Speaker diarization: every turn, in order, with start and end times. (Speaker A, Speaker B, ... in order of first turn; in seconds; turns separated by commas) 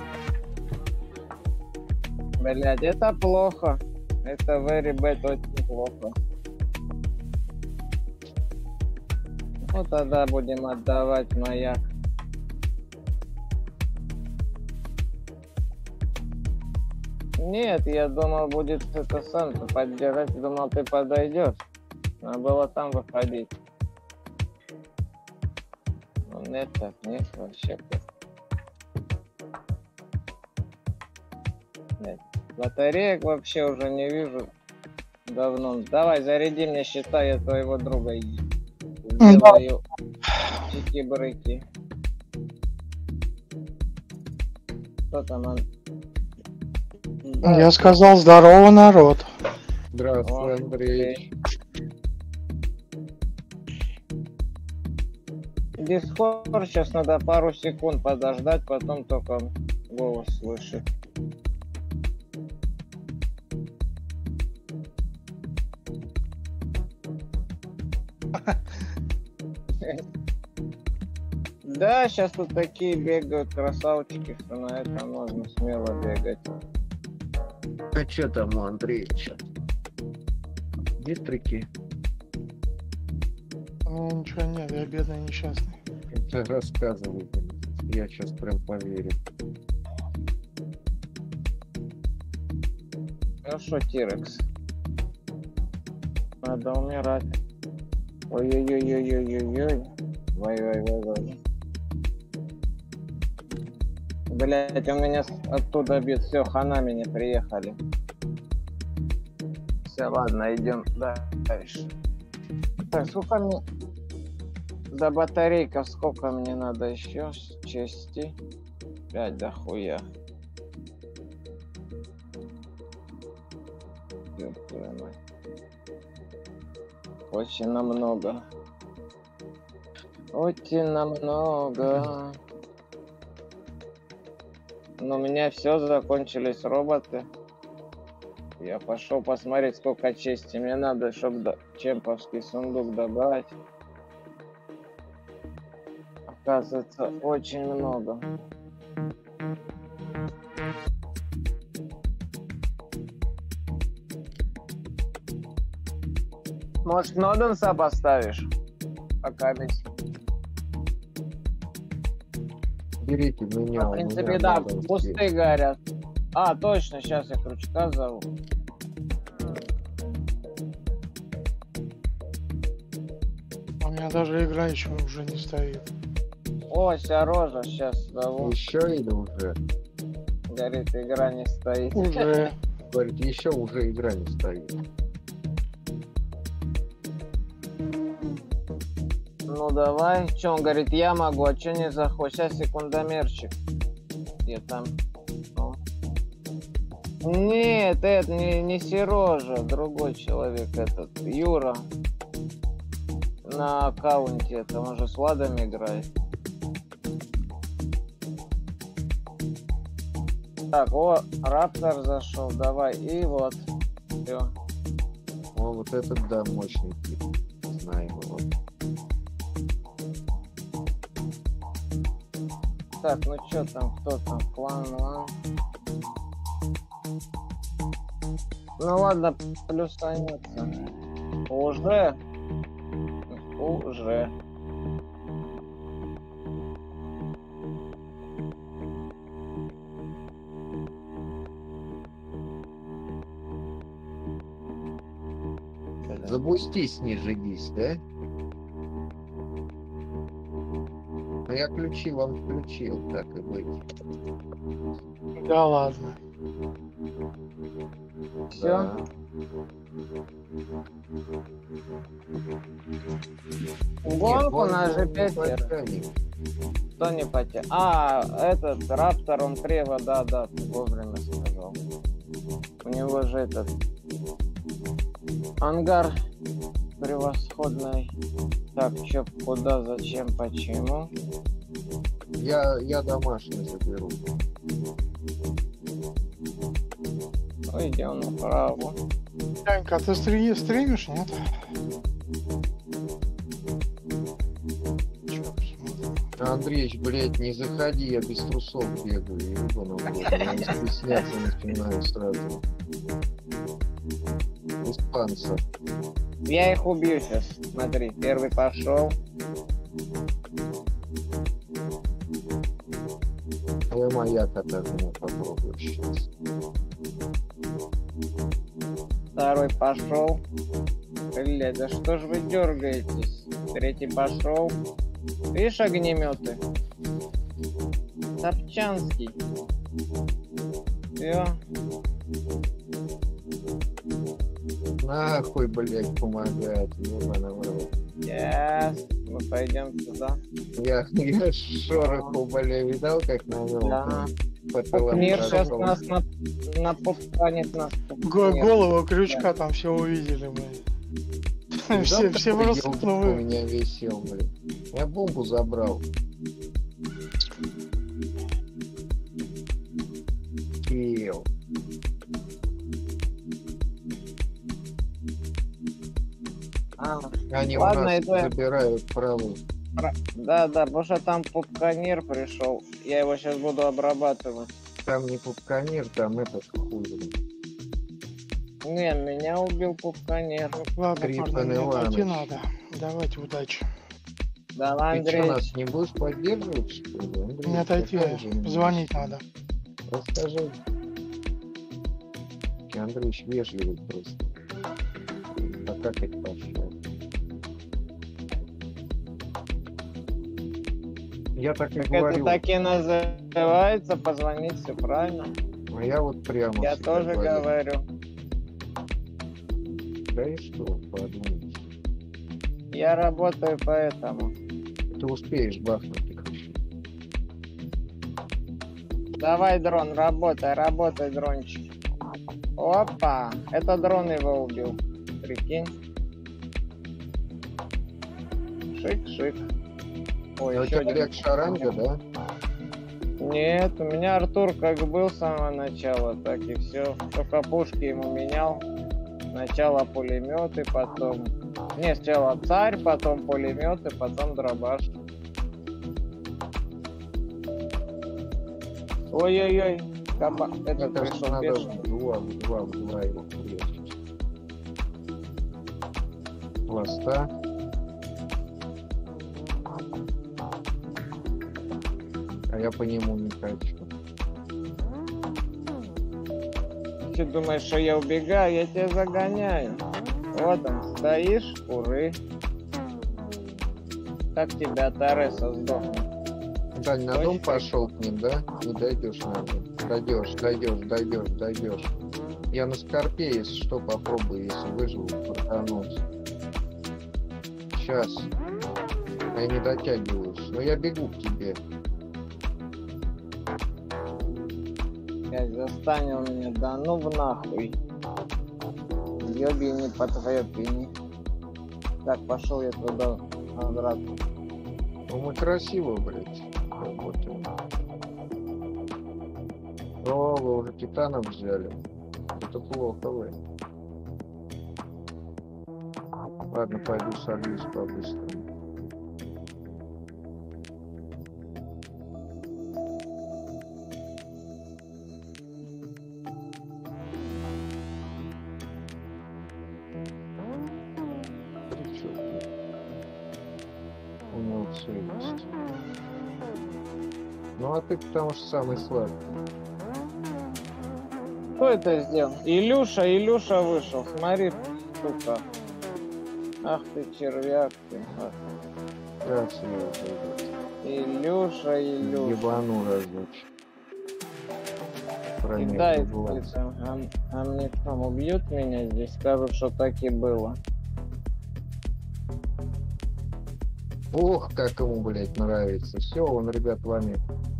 Speaker A: 2.4-6.1, Speaker A: 9.7-11.8, Speaker A: 17.4-21.6, Speaker A: 22.2-23.5, Speaker A: 26.3-28.0, Speaker A: 32.0-34.5, Speaker A: 35.3-38.4, Speaker A: 39.0-39.8, Speaker B: 39.2-39.6, Speaker A: 40.6-41.6, Speaker A: 45.1-45.6, Speaker A: 47.2-47.8, Speaker B: 47.4-49.3, Speaker C: 49.9-51.3, Speaker A: 50.2-51.1, Speaker A: 55.8-60.8, Speaker A: 71.7-76.5, Speaker C: 77.9-79.4, Speaker C: 81.0-81.7, Speaker B: 83.9-85.8, Speaker C: 86.1-89.2, Speaker A: 93.4-94.4, Speaker A: 96.4-97.3, Speaker A: 98.3-101.4, Speaker A: 104.3-107.8, Speaker A: 109.9-111.9, Speaker A: 112.9-113.6, Speaker A: 114.9-118.3, Speaker A: 119.1-120.0, Speaker A: 124.3-125.1, Speaker A: 127.3-128.4, Speaker A: 130.3-132.4, Speaker A: 135.0-137.2, Speaker A: 138.6-143.5, Speaker A: 146.3-148.2, Speaker A: 156.8-158.5, Speaker A: 159.2-159.8, Speaker C: 163.0-165.2, Speaker A: 163.8-165.8, Speaker A: 166.3-168.2, Speaker B: 173.8-175.8, Speaker A: 176.7-178.5, Speaker C: 178.4-179.6, Speaker A: 180.5-182.2, Speaker B: 182.0-182.5, Speaker C: 182.9-184.8, Speaker A: 189.5-193.5, Speaker A: 194.4-194.9, Speaker A: 197.2-201.8, Speaker A: 203.4-206.1, Speaker A: 210.7-213.6, Speaker A: 214.2-214.5, Speaker C: 215.5-218.5, Speaker A: 223.0-225.3, Speaker A: 228.8-230.7, Speaker A: 231.5-232.2, Speaker A: 233.3-234.3, Speaker A: 246.1-246.3, Speaker C: 246.2-248.0, Speaker C: 251.5-253.8, Speaker B: 255.4-256.1, Speaker A: 258.5-258.9, Speaker C: 258.5-259.0, Speaker A: 264.0-265.7, Speaker C: 264.0-266.1, Speaker A: 267.0-271.8, Speaker A: 272.8-273.7, Speaker A: 275.6-276.1, Speaker A: 277.0-278.1, Speaker A: 278.7-281.1, Speaker C: 282.4-284.2, Speaker A: 287.7-289.0, Speaker B: 289.6-291.4, Speaker C: 295.3-295.7, Speaker C: 296.4-302.6, Speaker C: 304.8-305.6, Speaker A: 306.5-309.1, Speaker C: 313.9-316.3, Speaker A: 319.4-320.4, Speaker A: 321.3-324.7, Speaker A: 325.5-326.6, Speaker A: 328.4-329.3, Speaker A: 331.2-331.6, Speaker C: 335.0-337.9, Speaker A: 338.2-340.4, Speaker C: 340.8-346.0, Speaker A: 342.0-342.3, Speaker A: 343.8-344.3, Speaker A: 344.9-348.8, Speaker B: 345.2-345.6, Speaker B: 348.2-350.8, Speaker B: 351.8-353.4, Speaker C: 351.9-356.0, Speaker C: 360.8-361.5, Speaker A: 367.0-368.5, Speaker C: 367.5-369.6, Speaker A: 370.0-374.7, Speaker C: 375.1-377.4, Speaker A: 378.8-380.9, Speaker B: 381.0-383.9, Speaker C: 381.2-382.5, Speaker A: 384.8-385.7, Speaker C: 385.1-389.0, Speaker B: 387.6-389.4, Speaker C: 390.1-390.8, Speaker C: 392.9-394.5, Speaker C: 395.6-396.9, Speaker C: 401.6-402.6, Speaker A: 402.0-405.5, Speaker C: 405.9-407.7, Speaker A: 406.8-408.0, Speaker C: 410.3-411.8, Speaker A: 412.9-414.5, Speaker C: 415.1-416.8, Speaker A: 419.4-421.8, Speaker A: 422.8-425.9, Speaker A: 428.9-429.6, Speaker A: 430.6-431.9, Speaker C: 430.7-432.2, Speaker A: 433.4-438.8, Speaker A: 439.5-445.0, Speaker A: 449.3-451.9, Speaker C: 451.0-454.1, Speaker C: 456.9-457.5, Speaker C: 462.7-464.1, Speaker A: 467.2-470.0, Speaker A: 470.5-472.4, Speaker A: 474.5-476.2, Speaker C: 476.9-482.1, Speaker A: 477.3-477.9, Speaker C: 482.7-486.2, Speaker C: 487.9-488.5, Speaker C: 489.5-491.8, Speaker A: 495.5-497.9, Speaker A: 499.4-501.1, Speaker A: 502.2-504.2, Speaker C: 505.3-507.7, Speaker C: 510.2-512.0, Speaker C: 512.5-513.6, Speaker C: 516.7-518.7, Speaker C: 531.9-532.6, Speaker C: 534.5-535.7, Speaker C: 537.8-539.4, Speaker A: 541.8-545.6, Speaker A: 546.8-548.5, Speaker C: 549.4-550.7, Speaker A: 551.0-552.6, Speaker C: 552.2-553.7, Speaker C: 555.6-556.7, Speaker A: 555.8-560.8, Speaker C: 564.3-567.4